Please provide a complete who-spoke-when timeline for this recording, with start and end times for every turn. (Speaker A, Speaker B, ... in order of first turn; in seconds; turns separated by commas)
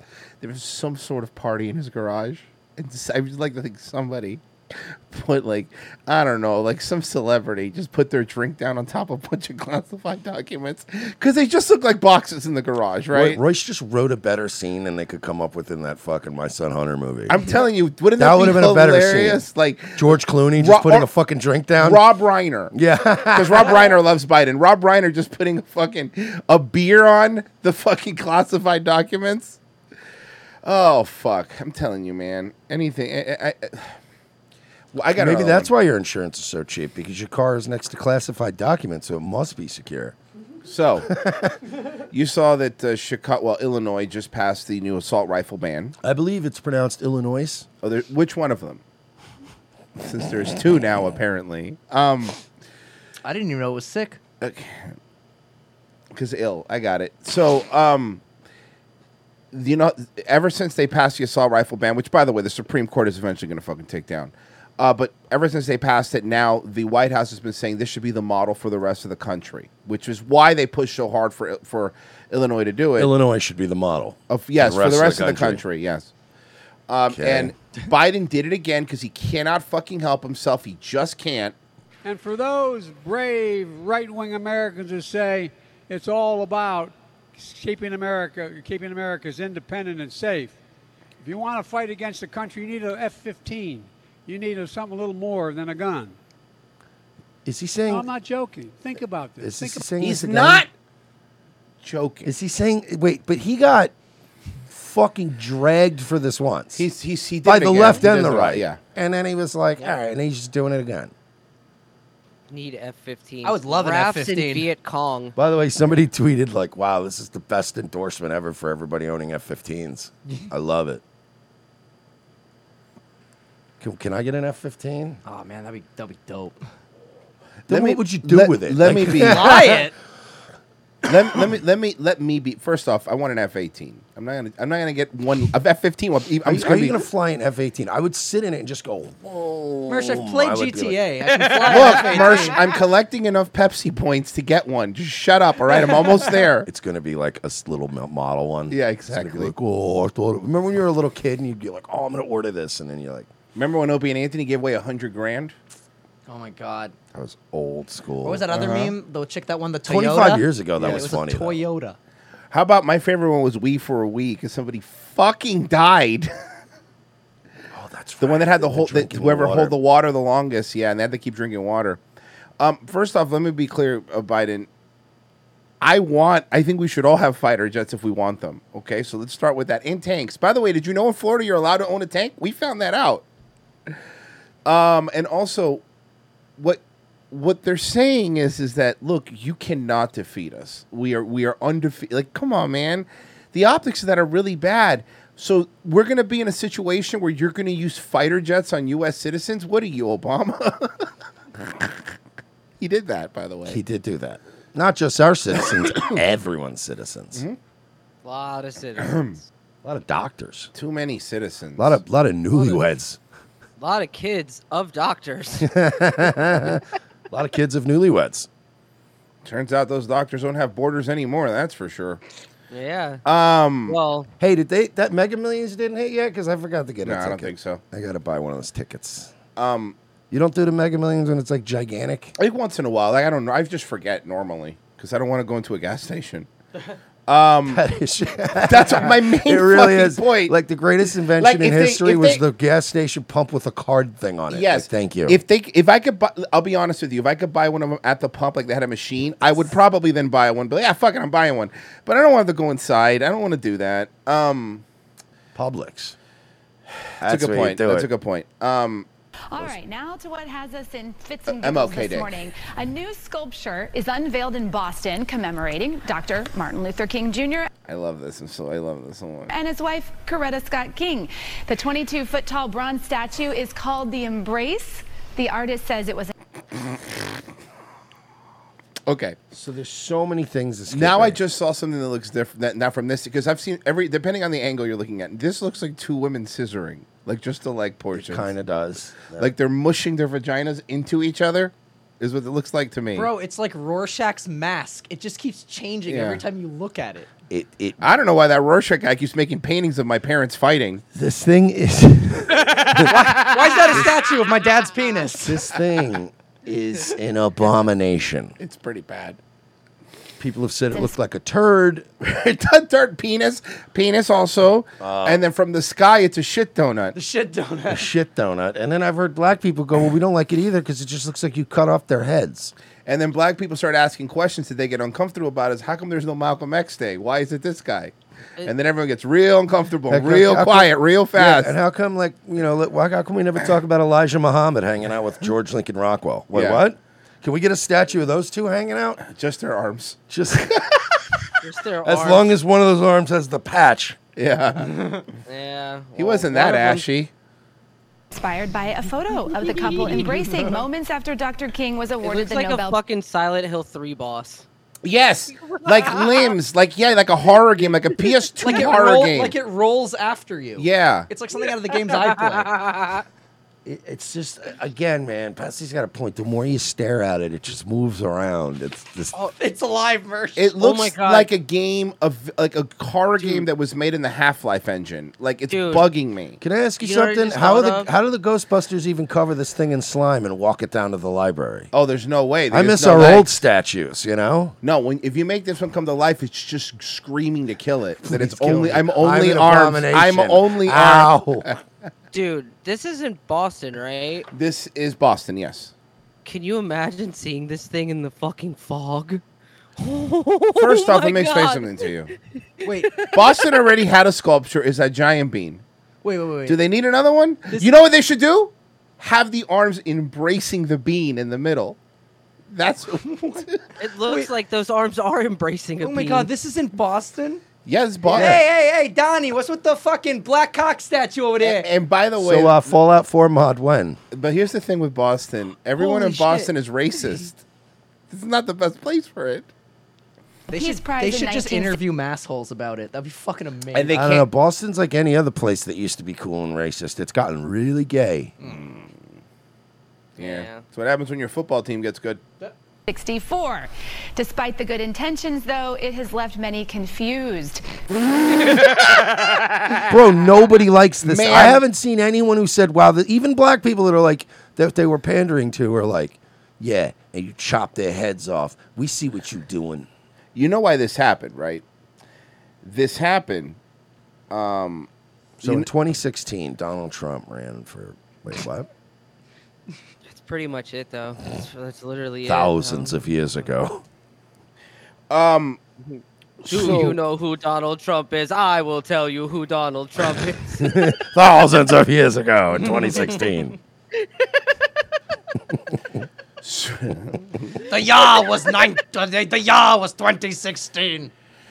Speaker A: 0.4-13.4, Speaker B: 13.1-17.4, Speaker A: 17.3-21.1, Speaker B: 18.2-19.4, Speaker B: 20.0-22.0, Speaker A: 21.8-22.7, Speaker B: 22.7-23.8, Speaker A: 23.4-29.6, Speaker A: 30.6-34.0, Speaker A: 34.9-35.7, Speaker B: 35.2-40.1, Speaker A: 40.6-41.1, Speaker B: 41.1-41.5, Speaker A: 42.1-46.0, Speaker B: 46.0-47.7, Speaker A: 47.8-48.8, Speaker A: 50.0-52.4, Speaker C: 53.2-54.2, Speaker A: 54.4-54.9, Speaker A: 56.1-58.2, Speaker A: 59.5-73.1, Speaker B: 73.0-75.6, Speaker A: 74.3-76.1, Speaker A: 76.9-81.5, Speaker B: 77.1-77.5, Speaker D: 82.0-90.6, Speaker D: 91.2-96.2, Speaker B: 97.5-98.1, Speaker D: 97.9-99.9, Speaker B: 99.4-100.7, Speaker A: 100.0-100.7, Speaker A: 101.8-102.3, Speaker B: 102.2-103.9, Speaker B: 104.7-106.8, Speaker A: 106.8-108.8, Speaker B: 107.5-111.1, Speaker E: 112.5-115.3, Speaker C: 113.4-114.7, Speaker B: 115.4-121.0, Speaker B: 123.8-125.2, Speaker C: 125.2-126.6, Speaker B: 127.7-129.8, Speaker A: 127.7-129.8, Speaker C: 129.2-129.9, Speaker A: 131.1-137.0, Speaker B: 136.4-141.0, Speaker C: 139.9-142.6, Speaker E: 141.5-142.6, Speaker A: 141.7-146.7, Speaker B: 146.7-153.3, Speaker A: 148.7-149.5, Speaker A: 153.6-155.5, Speaker C: 156.3-156.9, Speaker B: 157.1-158.9, Speaker C: 158.2-162.0, Speaker B: 159.8-161.6, Speaker A: 162.5-166.3, Speaker B: 167.7-169.7, Speaker A: 168.2-172.0, Speaker A: 172.6-174.7, Speaker A: 175.8-183.2, Speaker A: 184.7-185.8, Speaker A: 186.6-200.9, Speaker A: 201.7-201.9, Speaker A: 202.8-203.8, Speaker B: 203.7-207.4, Speaker E: 208.2-209.4, Speaker A: 209.0-209.4, Speaker B: 209.8-210.7, Speaker A: 210.7-212.0, Speaker B: 211.8-213.2, Speaker E: 212.6-212.8, Speaker E: 213.8-215.7, Speaker B: 215.6-218.5, Speaker A: 219.4-222.2, Speaker E: 222.7-223.2, Speaker A: 223.2-224.0, Speaker E: 223.9-224.3, Speaker B: 224.4-229.3, Speaker A: 227.1-227.8, Speaker A: 229.6-230.0, Speaker B: 230.3-232.3, Speaker A: 232.4-236.5, Speaker A: 237.3-237.8, Speaker B: 237.7-245.4, Speaker A: 238.7-240.5, Speaker A: 241.4-242.4, Speaker A: 244.5-254.8, Speaker B: 255.6-256.1, Speaker B: 257.2-258.1, Speaker A: 257.2-259.1, Speaker F: 259.5-267.7, Speaker A: 261.5-262.3, Speaker A: 267.9-269.5, Speaker F: 269.5-276.3, Speaker A: 279.1-279.4, Speaker B: 279.5-281.4, Speaker A: 280.9-288.5, Speaker B: 288.1-289.5, Speaker A: 289.4-293.3, Speaker C: 293.1-297.3, Speaker A: 296.1-296.4, Speaker B: 297.5-298.1, Speaker A: 298.0-301.0, Speaker B: 301.1-303.1, Speaker C: 302.7-305.6, Speaker B: 305.4-308.5, Speaker A: 308.6-309.4, Speaker B: 310.4-312.1, Speaker A: 312.2-317.1, Speaker B: 315.0-315.4, Speaker C: 317.1-318.1, Speaker B: 317.9-322.7, Speaker A: 323.1-331.8, Speaker B: 330.1-339.2, Speaker A: 336.5-336.8, Speaker A: 339.2-340.2, Speaker B: 340.3-340.8, Speaker E: 341.6-342.5, Speaker B: 342.1-344.2, Speaker A: 344.4-345.0, Speaker E: 344.9-347.1, Speaker A: 346.2-347.3, Speaker F: 348.3-353.0, Speaker C: 349.6-350.5, Speaker E: 352.2-354.7, Speaker A: 355.0-359.6, Speaker C: 358.6-362.8, Speaker A: 360.8-361.3, Speaker E: 362.2-363.2, Speaker B: 363.9-369.3, Speaker C: 369.4-370.7, Speaker A: 370.6-376.6, Speaker E: 370.8-371.5, Speaker E: 375.7-376.1, Speaker B: 376.6-381.9, Speaker E: 377.0-378.1, Speaker A: 381.9-383.6, Speaker B: 382.7-384.8, Speaker A: 384.8-391.7, Speaker B: 388.2-391.7, Speaker E: 392.3-394.5, Speaker A: 394.5-395.9, Speaker E: 396.4-399.4, Speaker E: 400.0-402.1, Speaker A: 400.8-402.3, Speaker C: 402.9-403.2, Speaker E: 403.0-403.5, Speaker A: 403.3-405.8, Speaker C: 406.2-406.8, Speaker A: 406.7-412.0, Speaker C: 407.7-408.0, Speaker A: 412.7-413.8, Speaker E: 414.0-416.5, Speaker C: 416.0-417.6, Speaker A: 417.9-418.6, Speaker C: 418.3-421.9, Speaker B: 418.4-418.6, Speaker A: 421.6-422.8, Speaker B: 422.4-424.2, Speaker A: 424.3-427.6, Speaker C: 426.0-426.7, Speaker A: 428.3-429.7, Speaker C: 430.7-434.4, Speaker F: 430.7-432.0, Speaker A: 433.9-434.4, Speaker B: 434.1-438.5, Speaker A: 438.6-439.2, Speaker E: 440.4-440.8, Speaker A: 440.4-442.4, Speaker F: 443.1-447.8, Speaker B: 450.1-460.1, Speaker A: 451.2-451.8, Speaker A: 460.6-461.8, Speaker A: 462.8-463.8, Speaker A: 464.5-465.1, Speaker B: 465.6-468.9, Speaker A: 465.6-465.9, Speaker E: 470.2-473.2, Speaker B: 472.4-474.0, Speaker A: 475.3-475.8, Speaker E: 476.0-480.9, Speaker A: 476.6-477.1, Speaker B: 476.8-477.1, Speaker B: 480.8-483.8, Speaker A: 486.6-487.4, Speaker C: 487.9-491.3